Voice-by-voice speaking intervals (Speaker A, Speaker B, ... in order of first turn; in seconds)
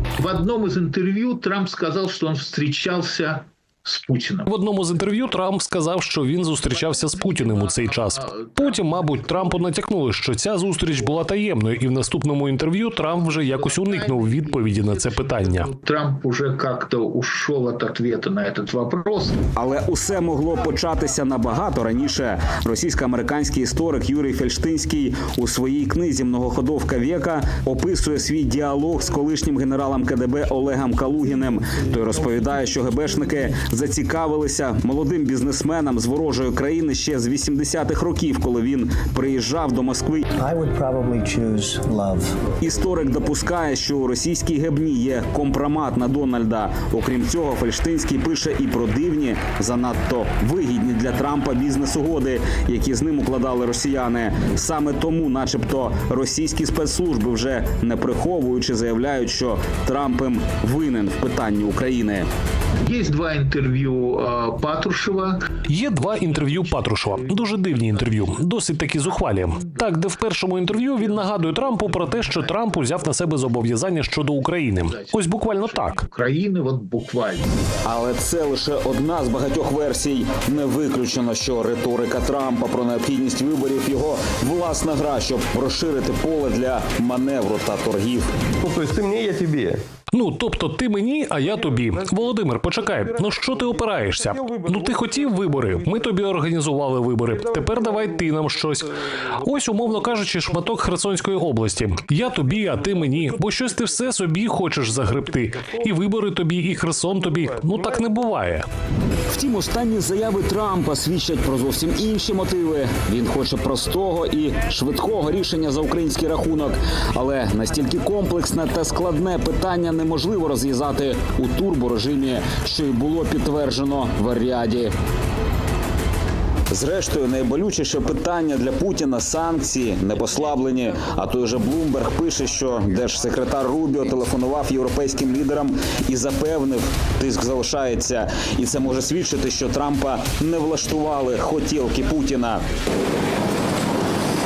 Speaker A: 0.2-4.5, 6.7-9.7, 13.3-19.4, 62.8-69.9, 71.0-73.1, 74.8-77.5
Speaker B: 4.5-15.7, 65.7-76.0, 90.1-108.6
Speaker C: 19.6-40.2, 42.6-62.3, 77.8-88.2, 109.3-124.9, 126.7-142.6
Speaker D: 40.4-42.3
Speaker E: 88.6-89.8, 91.4-96.2, 97.2-100.7, 102.2-104.2, 105.0-106.0, 106.9-108.1